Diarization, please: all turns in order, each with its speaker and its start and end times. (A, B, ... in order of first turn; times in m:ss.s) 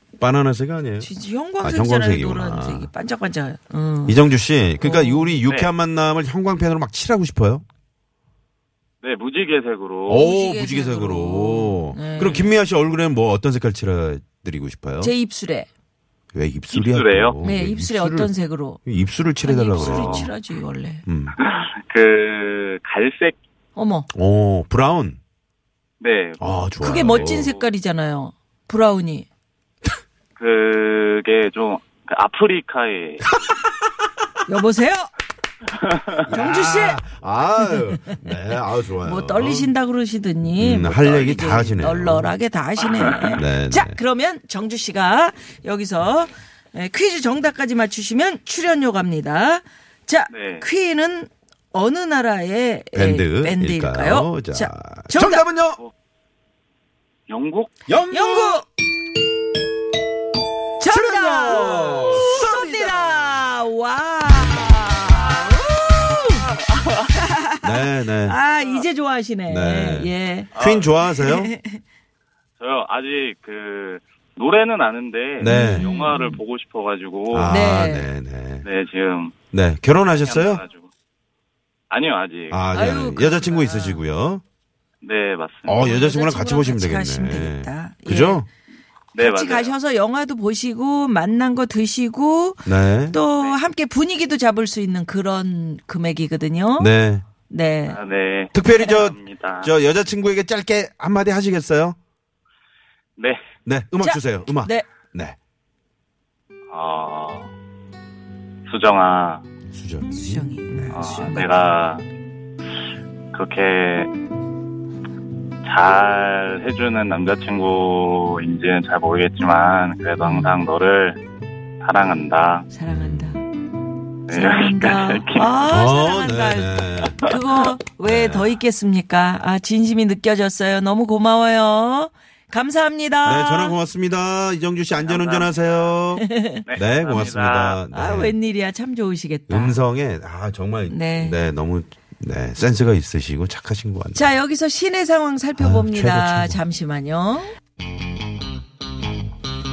0:00.2-0:01.1 A
0:01.0-0:04.2 B
0:01.6-0:02.9 A
0:04.1-0:07.6 A
0:04.8-0:05.4 B
0:09.0-0:10.2 C
0:10.1-0:15.1 A
0:10.1-0:12.5 B
0:15.0-0:15.7 B
0:16.3-0:18.3 A
0:16.7-0:17.4 C
0:17.4-0:18.8 B
0:18.8-0:20.3 A
0:19.4-0:21.0 B
0:19.7-0:20.3 C
0:21.0-0:21.4 A
0:21.4-0:23.4 C
0:23.7-0:24.1 B
0:24.1-0:25.2 A
0:26.0-0:27.6 C
0:26.4-0:27.5 A
0:26.8-0:29.3 B
0:30.4-0:33.3 C
0:34.5-0:35.1 B
0:36.2-0:39.7 A
0:36.3-0:37.0 B
0:37.6-0:38.4 B
0:39.0-0:55.4 B
0:40.5-0:42.3 A
0:43.4-0:44.0 A
0:50.3-0:50.7 C
0:52.9-0:55.8 A
0:57.3-0:57.7 C
0:57.9-0:58.6 A
0:58.1-0:58.6 B
1:00.8-1:06.5 B
1:00.8-1:03.4 A
1:07.1-1:10.5 B
1:07.6-1:08.4 A
1:08.5-1:08.8 C
1:09.5-1:11.5 A
1:10.6-1:11.0 C
1:11.1-1:11.8 B
1:12.6-1:17.6 C
1:15.4-1:15.9 A
1:15.4-1:16.4 B
1:17.3-1:18.7 A
1:17.4-1:18.1 B
1:18.6-1:19.3 C
1:19.5-1:20.6 A
1:20.1-1:20.9 C
1:21.9-1:22.6 C
1:22.5-1:24.4 A
1:22.7-1:24.0 B
1:25.0-1:25.8 C
1:25.6-1:28.5 A
1:25.7-1:28.4 B
1:29.1-1:29.7 C
1:29.2-1:36.9 B
1:32.6-1:33.2 A
1:36.8-1:37.2 A
1:37.5-1:38.0 B
1:37.9-1:39.7 C
1:38.5-1:42.0 A
1:43.2-1:43.4 C
1:43.6-1:45.4 A
1:44.0-1:44.8 B
1:46.7-1:47.5 C
1:48.7-1:49.4 C
1:49.7-1:51.3 A
1:50.1-1:51.5 B
1:50.9-1:52.0 C
1:53.3-1:54.1 C
1:55.6-2:01.2 C
2:00.2-2:00.6 B
2:01.8-2:02.7 C
2:02.7-2:03.4 B
2:02.9-2:03.3 A
2:04.3-2:05.6 C
2:04.3-2:13.8 B
2:05.6-2:07.3 A
2:08.0-2:08.6 A
2:13.2-2:18.4 A
2:15.0-2:15.9 C
2:16.2-2:16.6 B
2:16.6-2:17.8 C
2:17.9-2:19.8 B
2:19.5-2:24.3 A
2:20.9-2:21.4 B
2:24.1-2:27.5 B
2:25.6-2:26.6 A